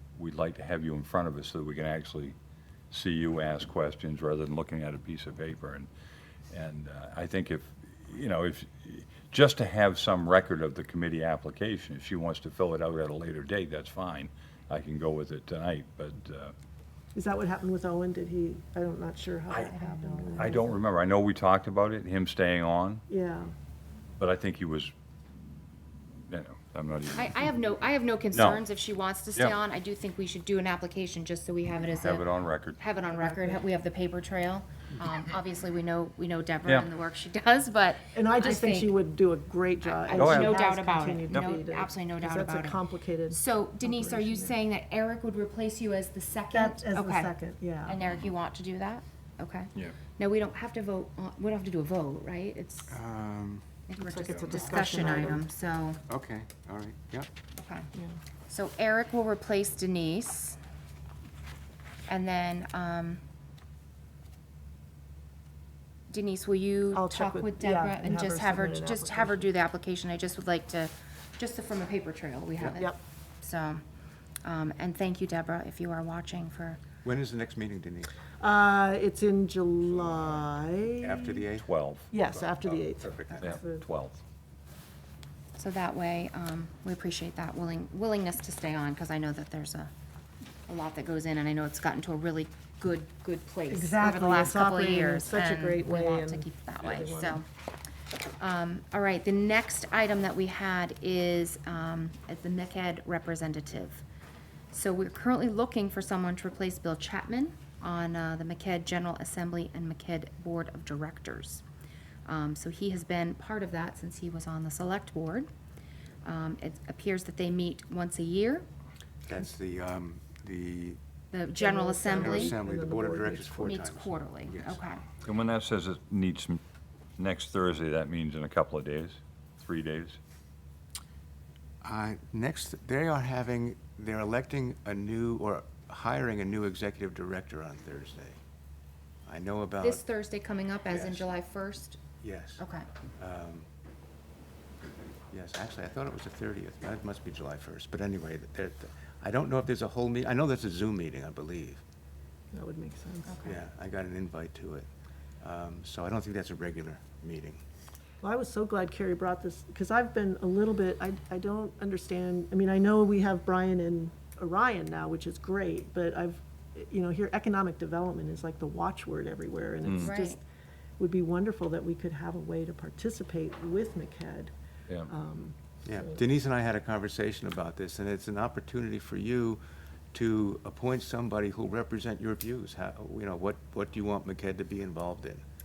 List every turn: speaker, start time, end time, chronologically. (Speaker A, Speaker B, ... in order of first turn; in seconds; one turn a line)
Speaker A: 0.2-2.4
Speaker A: 2.9-5.9
Speaker A: 6.5-16.5
Speaker B: 17.1-20.7
Speaker C: 19.6-20.7
Speaker A: 20.4-23.0
Speaker B: 23.1-23.5
Speaker A: 24.2-24.9
Speaker A: 26.3-27.5
Speaker C: 27.1-32.3
Speaker A: 28.3-28.6
Speaker A: 32.0-32.8
Speaker C: 32.8-38.9
Speaker B: 33.0-33.7
Speaker B: 38.1-44.6
Speaker C: 39.8-47.3
Speaker A: 40.1-40.6
Speaker A: 41.3-41.6
Speaker B: 46.5-48.0
Speaker C: 47.9-53.0
Speaker D: 52.9-53.7
Speaker C: 53.9-56.0
Speaker B: 54.0-55.5
Speaker A: 54.3-54.6
Speaker D: 56.1-57.3
Speaker C: 57.6-57.9
Speaker C: 58.5-60.6
Speaker C: 62.1-63.2
Speaker C: 66.1-73.8
Speaker B: 66.9-69.5
Speaker C: 74.4-76.8
Speaker D: 77.0-78.1
Speaker B: 78.4-81.5
Speaker D: 81.0-81.7
Speaker A: 81.6-82.2
Speaker B: 82.1-83.9
Speaker D: 82.6-83.6
Speaker A: 83.4-84.2
Speaker C: 85.6-89.9
Speaker C: 90.7-97.5
Speaker B: 93.7-97.4
Speaker C: 98.4-104.0
Speaker C: 104.7-111.6
Speaker C: 112.3-115.5
Speaker C: 116.2-118.7
Speaker D: 119.3-121.0
Speaker C: 121.3-122.5
Speaker B: 121.6-123.8
Speaker D: 122.2-124.8
Speaker C: 123.6-125.0
Speaker A: 125.2-126.6
Speaker A: 127.2-130.2
Speaker D: 131.8-138.4
Speaker D: 139.3-140.0
Speaker C: 139.8-142.0
Speaker D: 140.9-141.3
Speaker D: 142.2-142.7
Speaker C: 142.6-142.9
Speaker D: 143.2-143.7
Speaker D: 145.3-151.8
Speaker B: 152.5-153.4
Speaker C: 153.3-153.6
Speaker D: 153.4-154.9
Speaker D: 155.4-157.6
Speaker B: 158.2-170.4
Speaker A: 169.9-170.1
Speaker C: 170.0-170.4
Speaker B: 171.0-174.5
Speaker B: 175.1-175.6
Speaker D: 175.8-179.6
Speaker D: 180.1-185.4